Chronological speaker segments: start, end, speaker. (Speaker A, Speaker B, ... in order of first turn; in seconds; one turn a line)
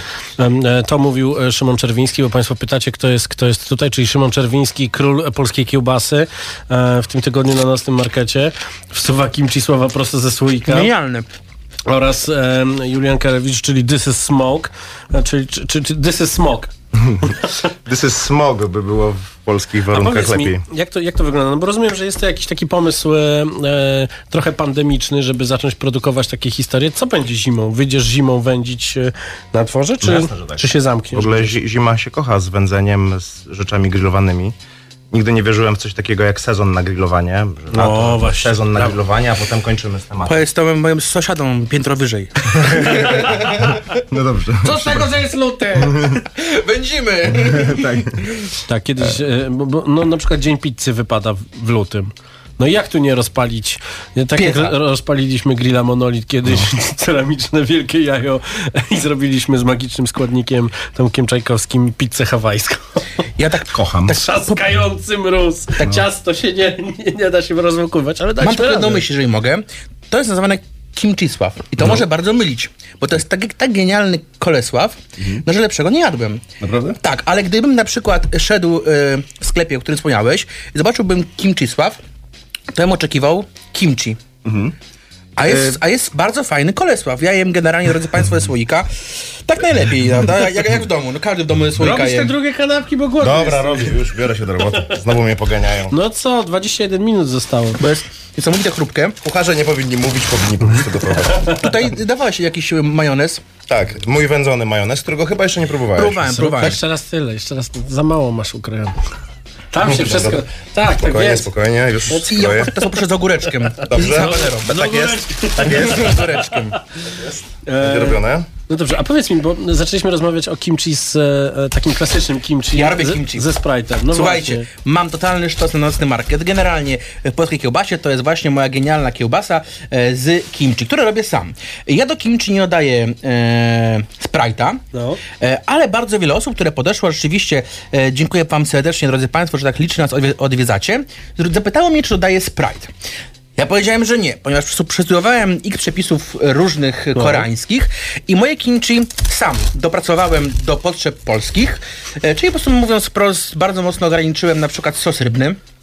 Speaker A: 0.4-10.9
Speaker B: 10.7-11.3
Speaker A: 11.9-16.7
Speaker C: 16.9-20.6
Speaker A: 19.9-31.5
Speaker C: 30.0-34.5
Speaker C: 35.1-40.4
Speaker A: 37.7-38.9
Speaker B: 40.2-43.6
Speaker C: 44.1-45.0
Speaker B: 44.7-48.2
Speaker A: 44.8-45.9
Speaker C: 45.8-46.1
Speaker C: 47.3-48.1
Speaker A: 48.7-63.0
Speaker B: 54.3-54.7
Speaker B: 63.4-64.5
Speaker C: 63.7-64.2
Speaker A: 64.1-69.0
Speaker B: 68.4-76.5
Speaker C: 75.2-75.4
Speaker C: 76.6-77.0
Speaker B: 77.0-82.0
Speaker B: 82.7-84.2
Speaker C: 84.4-84.7
Speaker B: 85.4-92.3
Speaker C: 85.4-85.8
Speaker A: 91.8-94.0
Speaker C: 93.2-96.0
Speaker A: 95.9-97.8
Speaker B: 97.8-99.2
Speaker C: 99.2-101.5
Speaker B: 101.5-103.4
Speaker C: 103.7-106.3
Speaker B: 106.0-106.8
Speaker A: 106.3-109.0
Speaker A: 109.7-111.5
Speaker C: 109.8-110.4
Speaker C: 111.0-112.7
Speaker A: 112.1-112.7
Speaker B: 112.3-114.7
Speaker C: 113.8-118.5
Speaker A: 113.9-116.4
Speaker B: 115.6-116.8
Speaker A: 117.7-124.7
Speaker B: 122.7-123.5
Speaker B: 124.1-134.8
Speaker A: 134.9-135.2
Speaker B: 135.4-142.9
Speaker B: 143.6-155.6
Speaker A: 147.2-147.5